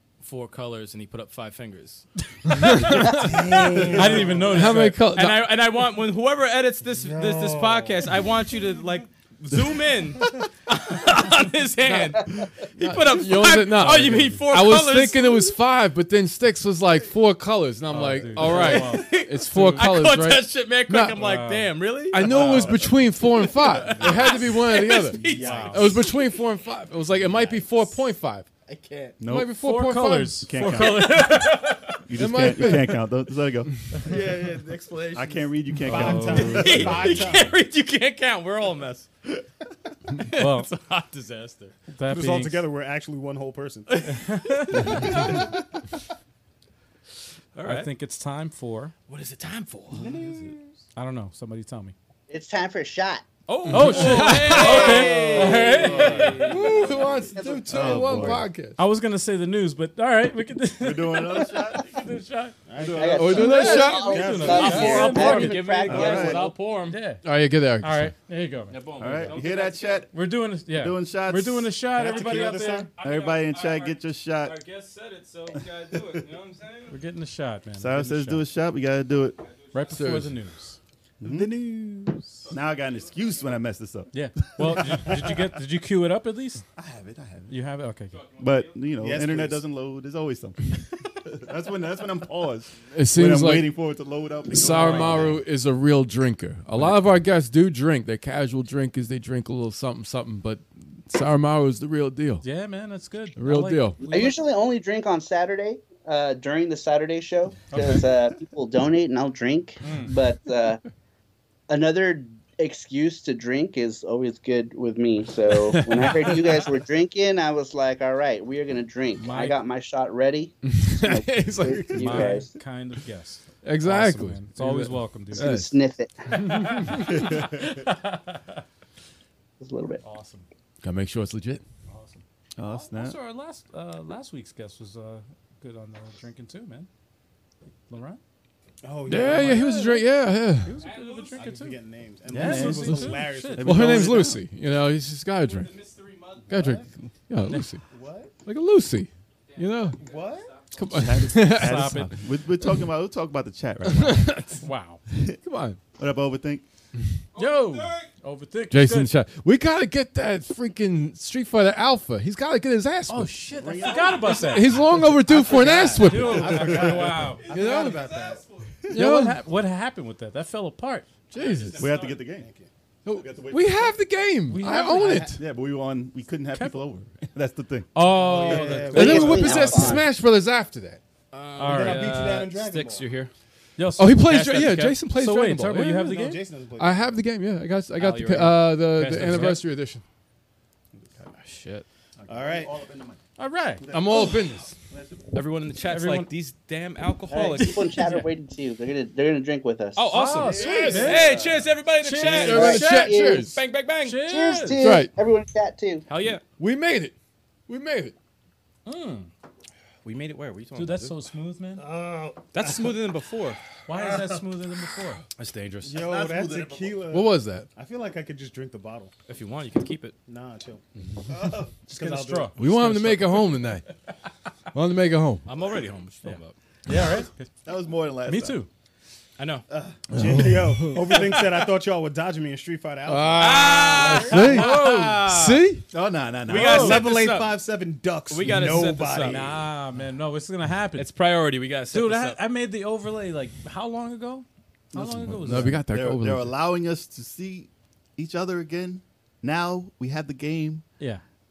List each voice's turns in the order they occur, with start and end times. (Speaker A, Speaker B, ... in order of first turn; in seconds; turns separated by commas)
Speaker A: 0.2-4.3, Speaker B: 2.5-3.5, Speaker C: 2.5-5.1, Speaker D: 3.2-4.7, Speaker B: 4.4-5.5, Speaker A: 5.1-15.6, Speaker D: 7.0-8.1, Speaker B: 12.8-21.2, Speaker C: 17.9-19.9, Speaker A: 18.4-26.3, Speaker C: 21.1-22.8, Speaker B: 22.1-28.5, Speaker D: 25.1-26.1, Speaker C: 25.2-25.9, Speaker D: 27.1-27.9, Speaker E: 29.2-29.5, Speaker B: 29.2-30.4, Speaker C: 29.6-32.0, Speaker E: 30.4-31.4, Speaker E: 32.1-34.2, Speaker B: 32.2-33.0, Speaker D: 34.0-37.5, Speaker A: 34.1-35.1, Speaker E: 35.1-37.3, Speaker C: 35.9-36.6, Speaker A: 36.3-39.1, Speaker A: 40.2-41.8, Speaker C: 40.4-40.7, Speaker C: 41.9-42.7, Speaker D: 42.1-44.2, Speaker A: 43.9-45.2, Speaker C: 44.1-45.1, Speaker A: 47.5-47.9, Speaker C: 47.6-48.9, Speaker A: 49.1-50.1, Speaker D: 50.0-50.7, Speaker C: 51.0-52.0, Speaker F: 52.3-53.2, Speaker A: 53.5-57.2, Speaker B: 53.7-55.2, Speaker C: 53.7-56.6, Speaker F: 54.8-55.7, Speaker E: 55.8-56.4, Speaker B: 56.3-58.8, Speaker F: 57.3-58.4, Speaker E: 57.7-58.4, Speaker C: 58.8-62.6, Speaker E: 60.8-61.9, Speaker D: 62.7-65.2, Speaker E: 62.8-63.5, Speaker F: 62.9-66.5, Speaker B: 63.1-64.8, Speaker C: 63.5-66.1, Speaker A: 64.4-67.0, Speaker E: 65.8-66.5, Speaker C: 66.9-68.8, Speaker B: 67.2-68.1, Speaker A: 68.7-70.1, Speaker E: 69.0-74.6, Speaker C: 70.1-72.9, Speaker D: 72.0-72.9, Speaker A: 72.1-77.0, Speaker E: 75.5-76.2, Speaker C: 76.9-78.5, Speaker E: 77.8-79.4, Speaker A: 79.4-80.0, Speaker C: 79.7-80.8, Speaker B: 79.9-80.4, Speaker E: 81.2-81.7, Speaker E: 82.5-85.5, Speaker C: 84.1-86.6, Speaker E: 86.8-87.5, Speaker C: 87.5-88.2, Speaker A: 88.1-88.8, Speaker E: 88.4-95.4, Speaker D: 89.0-89.6, Speaker B: 92.9-93.7, Speaker B: 94.5-102.4, Speaker C: 94.7-95.1, Speaker C: 102.4-104.3, Speaker B: 103.4-104.0, Speaker F: 104.0-110.8, Speaker C: 107.7-108.1, Speaker C: 109.8-110.1, Speaker F: 111.7-122.6, Speaker B: 115.7-116.4, Speaker C: 119.2-119.6, Speaker B: 120.6-122.4, Speaker C: 121.9-125.5, Speaker B: 123.6-125.7, Speaker F: 125.3-126.8, Speaker C: 126.4-128.6, Speaker B: 126.6-126.8, Speaker F: 129.6-130.0, Speaker C: 130.0-130.5, Speaker B: 130.8-131.6, Speaker C: 131.9-136.9, Speaker E: 132.6-133.2, Speaker C: 137.9-138.2, Speaker D: 138.8-139.8, Speaker B: 139.1-140.8, Speaker C: 139.1-140.1, Speaker C: 140.6-141.8, Speaker A: 140.8-141.5, Speaker D: 141.3-144.2, Speaker E: 142.3-144.5, Speaker C: 142.3-143.7, Speaker B: 143.6-145.7, Speaker A: 145.4-146.7, Speaker D: 146.5-146.9, Speaker B: 146.5-147.8, Speaker D: 147.9-148.3, Speaker B: 148.4-150.0, Speaker A: 149.5-150.9, Speaker D: 150.0-150.6, Speaker B: 150.7-152.1, Speaker E: 150.9-154.5, Speaker C: 151.4-152.2, Speaker B: 153.9-154.6, Speaker C: 154.6-155.0, Speaker E: 155.1-155.4, Speaker B: 155.4-155.8, Speaker E: 155.9-156.6, Speaker A: 157.3-158.1, Speaker C: 157.3-159.1, Speaker B: 158.7-163.4, Speaker C: 163.1-164.9, Speaker E: 163.6-164.0, Speaker D: 163.8-168.4, Speaker A: 163.8-164.5, Speaker B: 164.2-168.0, Speaker C: 165.4-167.5, Speaker A: 167.2-168.8, Speaker B: 168.9-169.4, Speaker C: 168.9-171.1, Speaker B: 171.3-171.9, Speaker A: 171.3-172.2, Speaker E: 171.8-172.5, Speaker D: 171.8-172.7, Speaker B: 173.1-175.4, Speaker E: 173.2-173.9, Speaker C: 174.5-175.4, Speaker D: 174.7-175.1, Speaker E: 175.4-177.9, Speaker C: 176.5-176.8, Speaker C: 177.9-180.0, Speaker D: 178.0-179.7, Speaker F: 178.9-180.1, Speaker B: 178.9-181.0, Speaker A: 181.3-183.3, Speaker C: 181.6-182.2, Speaker D: 181.6-183.1, Speaker C: 183.8-186.4, Speaker B: 184.0-186.1, Speaker A: 184.2-185.0, Speaker D: 186.0-187.2, Speaker B: 186.8-190.0, Speaker A: 188.0-188.8, Speaker C: 188.9-189.6, Speaker A: 191.3-191.8, Speaker E: 192.2-193.2, Speaker D: 192.3-192.7, Speaker C: 193.4-193.9, Speaker E: 193.8-195.3, Speaker B: 193.9-194.8, Speaker A: 195.3-198.1, Speaker C: 195.9-196.3, Speaker F: 197.3-200.2, Speaker C: 198.0-198.3, Speaker A: 200.0-202.8, Speaker C: 200.1-201.3, Speaker D: 200.4-201.3, Speaker E: 200.5-201.7, Speaker C: 202.0-203.1, Speaker F: 202.2-203.5, Speaker B: 202.2-203.6, Speaker A: 203.5-204.2, Speaker C: 204.0-204.8, Speaker F: 204.2-206.0, Speaker B: 204.8-205.1, Speaker A: 206.1-206.4, Speaker B: 206.5-207.2, Speaker B: 207.7-208.1, Speaker C: 208.9-209.3, Speaker A: 210.0-211.2, Speaker C: 210.8-211.9, Speaker D: 211.8-212.9, Speaker A: 212.5-213.6, Speaker C: 213.9-215.2, Speaker A: 215.4-216.1, Speaker D: 215.8-219.1, Speaker E: 215.9-217.1, Speaker B: 217.1-217.7, Speaker A: 219.3-220.2, Speaker D: 220.3-222.6, Speaker C: 221.9-223.5, Speaker B: 222.6-223.9, Speaker B: 224.7-225.5, Speaker A: 225.5-226.6, Speaker C: 226.2-227.5, Speaker E: 227.7-228.6, Speaker C: 228.3-228.7, Speaker A: 229.4-229.6, Speaker D: 229.7-234.7, Speaker B: 230.1-231.1, Speaker B: 233.1-235.9, Speaker A: 233.4-235.2, Speaker C: 233.9-235.5, Speaker E: 235.9-237.0, Speaker A: 236.5-237.6, Speaker D: 236.5-239.7, Speaker C: 236.6-237.0, Speaker A: 238.3-239.5, Speaker C: 239.2-241.1, Speaker A: 241.0-242.4, Speaker C: 241.9-245.8, Speaker E: 244.9-250.8, Speaker B: 245.4-246.5